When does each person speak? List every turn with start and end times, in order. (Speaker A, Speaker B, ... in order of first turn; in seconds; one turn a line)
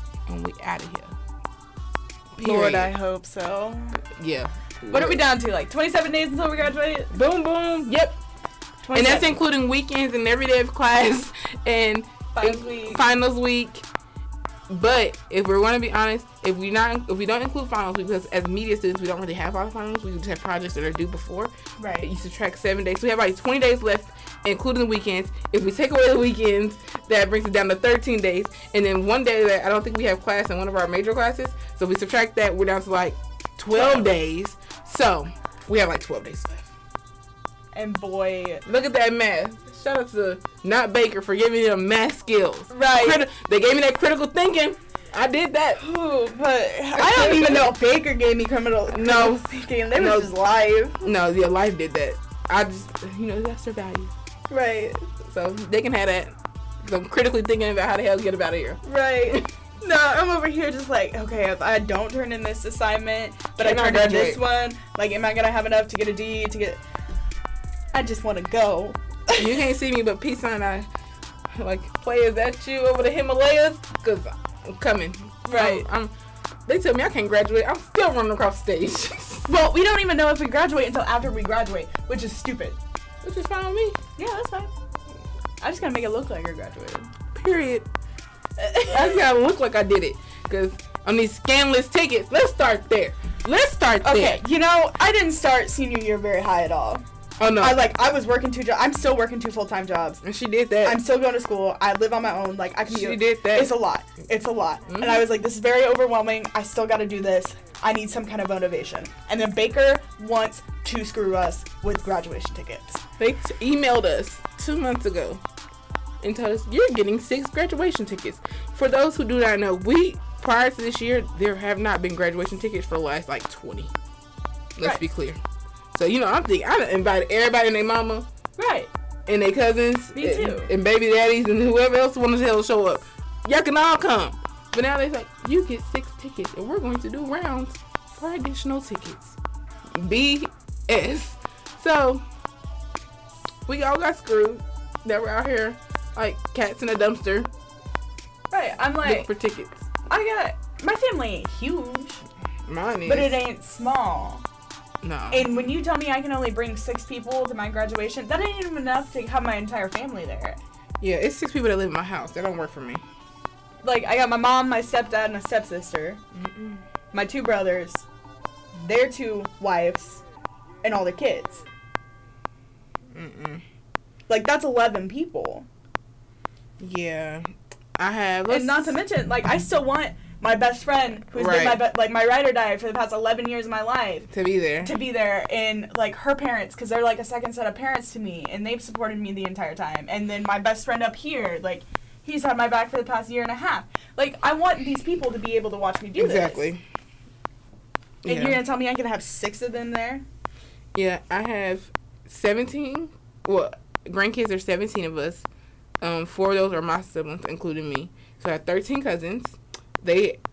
Speaker A: 0.3-1.1
Speaker A: 2.4-2.9
Speaker B: 2.4-4.0
Speaker A: 4.2-5.2
Speaker B: 4.9-7.1
Speaker A: 7.1-8.2
Speaker B: 8.8-9.4
Speaker A: 8.9-13.8
Speaker B: 12.3-13.0
Speaker A: 14.7-36.6
Speaker B: 21.8-22.1
Speaker B: 33.7-34.1
Speaker B: 37.7-38.6
Speaker A: 38.6-45.8
Speaker B: 42.7-43.3
Speaker B: 45.8-51.0
Speaker A: 46.9-47.7
Speaker A: 48.9-50.3
Speaker A: 51.0-54.1
Speaker B: 54.5-55.1
Speaker A: 55.2-59.4
Speaker B: 58.8-66.8
Speaker A: 63.6-64.4
Speaker B: 67.9-69.6
Speaker A: 69.3-70.9
Speaker A: 71.6-76.1
Speaker B: 75.4-75.8
Speaker A: 76.7-79.5
Speaker B: 79.5-82.8
Speaker A: 83.2-84.0
Speaker B: 84.2-84.7
Speaker B: 85.6-87.1
Speaker A: 87.3-87.8
Speaker B: 88.6-89.1
Speaker A: 88.8-94.4
Speaker B: 94.0-97.0
Speaker A: 97.4-97.8
Speaker B: 97.6-100.2
Speaker A: 100.2-101.0
Speaker B: 100.8-113.0
Speaker A: 102.9-103.7
Speaker A: 104.9-105.2
Speaker A: 113.2-115.4
Speaker A: 116.2-123.9
Speaker A: 124.8-125.4
Speaker A: 125.9-128.2
Speaker B: 128.6-128.9
Speaker A: 129.3-139.4
Speaker B: 130.1-130.7
Speaker A: 139.9-142.2
Speaker A: 143.7-147.5
Speaker B: 148.5-149.3
Speaker A: 149.0-149.9
Speaker B: 150.1-152.2
Speaker A: 152.7-153.4
Speaker B: 153.0-154.4
Speaker A: 155.0-155.6
Speaker B: 155.3-160.6
Speaker A: 161.0-163.0
Speaker B: 163.8-166.2
Speaker A: 166.3-166.8
Speaker B: 167.1-168.1
Speaker B: 168.8-170.2
Speaker B: 170.8-171.6
Speaker A: 173.1-173.6
Speaker B: 174.3-175.7
Speaker A: 176.8-179.0
Speaker B: 178.5-184.3
Speaker A: 181.3-181.8
Speaker A: 184.3-184.9
Speaker B: 184.8-196.7
Speaker A: 196.2-196.8
Speaker A: 198.2-198.6
Speaker B: 198.2-200.2
Speaker A: 200.9-205.4
Speaker A: 206.0-210.4